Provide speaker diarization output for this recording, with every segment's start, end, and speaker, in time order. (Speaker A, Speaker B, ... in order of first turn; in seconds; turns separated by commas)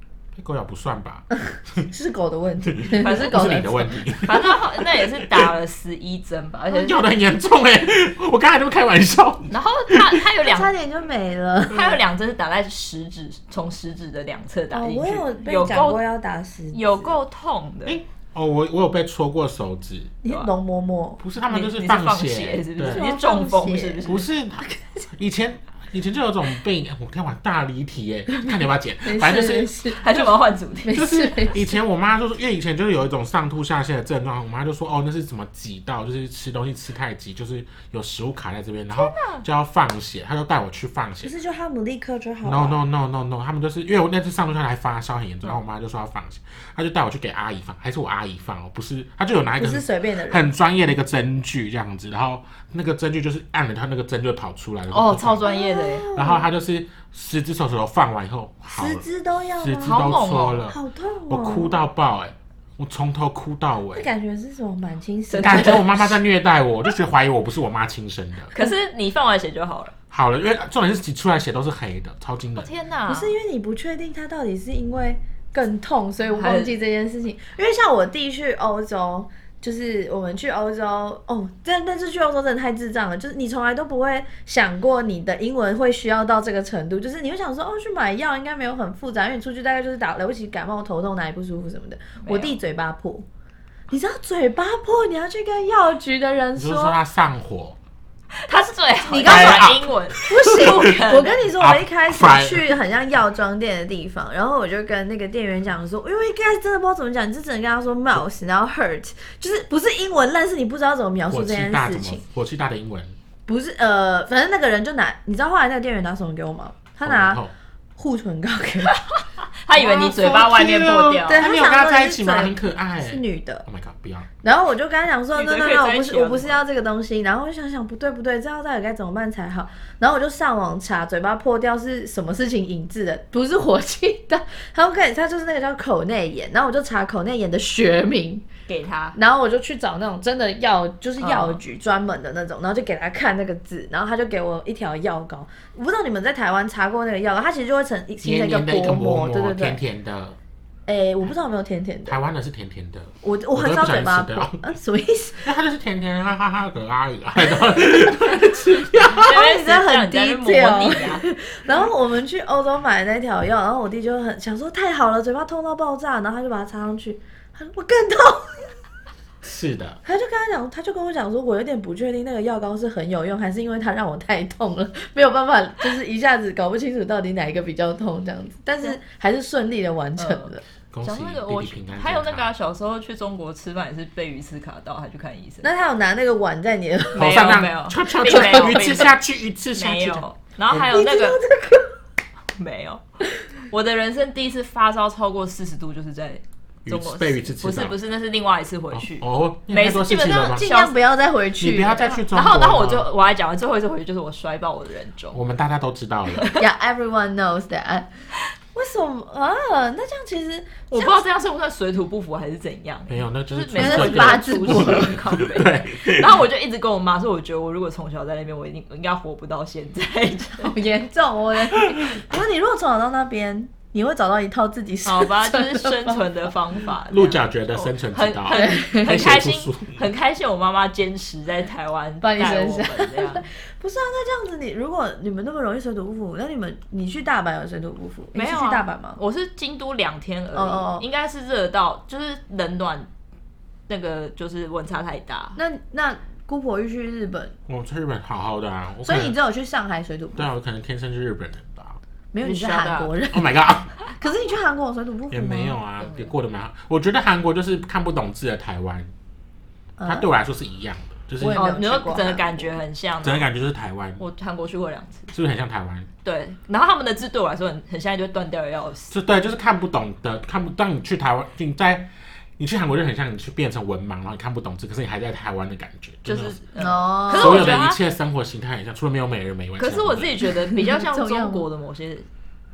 Speaker A: 0.3-1.9, Speaker B: 1.9-4.0, Speaker A: 2.7-5.5, Speaker C: 3.0-3.6, Speaker C: 4.2-7.0, Speaker A: 6.7-10.2, Speaker C: 9.5-10.7, Speaker B: 10.4-12.0, Speaker C: 11.7-16.0, Speaker B: 14.7-17.2, Speaker C: 16.7-18.0, Speaker A: 17.9-20.1, Speaker B: 20.2-21.2, Speaker A: 21.2-23.1, Speaker C: 21.5-24.2, Speaker B: 22.8-24.9, Speaker A: 24.1-29.8, Speaker B: 29.1-30.0, Speaker C: 30.0-31.2, Speaker B: 30.9-31.6, Speaker A: 30.9-41.3, Speaker C: 38.9-39.5, Speaker B: 41.2-42.8, Speaker A: 42.4-55.5, Speaker B: 49.6-50.5, Speaker C: 54.9-56.1, Speaker B: 55.5-56.5, Speaker A: 56.1-59.0, Speaker B: 58.7-60.1, Speaker A: 59.6-60.8, Speaker C: 59.8-60.6, Speaker B: 60.7-61.8, Speaker A: 61.3-64.1, Speaker B: 63.9-65.9, Speaker C: 65.3-66.0, Speaker A: 65.4-68.5, Speaker C: 68.5-69.9, Speaker A: 70.1-72.7, Speaker C: 72.6-73.3, Speaker B: 73.1-93.2, Speaker C: 76.3-76.7, Speaker C: 92.2-92.6, Speaker B: 93.9-97.0, Speaker A: 96.6-97.8, Speaker C: 98.5-101.4, Speaker B: 99.0-112.2, Speaker A: 99.2-101.0, Speaker A: 101.5-102.8, Speaker A: 111.3-113.1, Speaker B: 113.5-117.4, Speaker A: 117.0-117.5, Speaker B: 118.0-119.0, Speaker C: 119.1-121.4, Speaker B: 119.8-120.4, Speaker A: 120.2-124.3, Speaker B: 121.2-123.6, Speaker B: 124.4-138.4, Speaker C: 125.3-126.6, Speaker C: 138.7-139.2, Speaker B: 139.1-149.8, Speaker C: 141.2-141.6, Speaker A: 148.2-150.4, Speaker B: 150.9-152.2, Speaker A: 152.1-154.6, Speaker B: 153.2-155.5, Speaker A: 155.4-159.4, Speaker C: 159.1-161.2, Speaker B: 159.1-168.7, Speaker A: 169.4-170.0, Speaker B: 170.1-180.6, Speaker C: 180.2-180.5, Speaker A: 180.9-182.5, Speaker C: 181.0-185.7, Speaker B: 185.6-187.3, Speaker C: 187.1-189.2, Speaker A: 187.1-190.2, Speaker B: 188.2-188.9, Speaker C: 189.7-191.4, Speaker B: 190.7-191.9, Speaker C: 192.6-193.0, Speaker C: 193.7-200.9, Speaker A: 196.8-198.0, Speaker A: 198.9-200.7, Speaker B: 200.4-202.2, Speaker A: 201.6-203.1, Speaker C: 202.3-205.4, Speaker A: 205.3-206.5, Speaker C: 206.3-206.6, Speaker B: 206.6-208.1, Speaker B: 208.7-211.2, Speaker C: 210.9-220.7, Speaker A: 213.1-216.4, Speaker B: 213.8-215.2, Speaker B: 220.6-226.2, Speaker C: 225.1-233.5, Speaker A: 227.1-230.0, Speaker B: 228.5-229.1, Speaker B: 232.2-239.2, Speaker C: 238.3-243.1, Speaker B: 240.6-241.1, Speaker C: 243.9-245.6, Speaker B: 245.6-247.6, Speaker A: 247.7-249.4, Speaker B: 249.1-250.5, Speaker A: 250.4-252.0, Speaker B: 252.3-255.8, Speaker C: 252.4-253.1, Speaker A: 253.3-254.0, Speaker A: 255.3-259.1, Speaker C: 256.0-256.3, Speaker B: 260.0-260.3, Speaker A: 260.1-261.8, Speaker B: 261.4-262.7, Speaker C: 261.5-263.5, Speaker A: 263.2-264.2, Speaker C: 264.2-265.3, Speaker A: 265.3-266.1, Speaker C: 266.2-269.1, Speaker A: 269.1-276.6, Speaker C: 276.2-278.0, Speaker B: 276.8-277.8, Speaker A: 277.3-280.4, Speaker C: 279.8-282.3, Speaker B: 280.6-281.6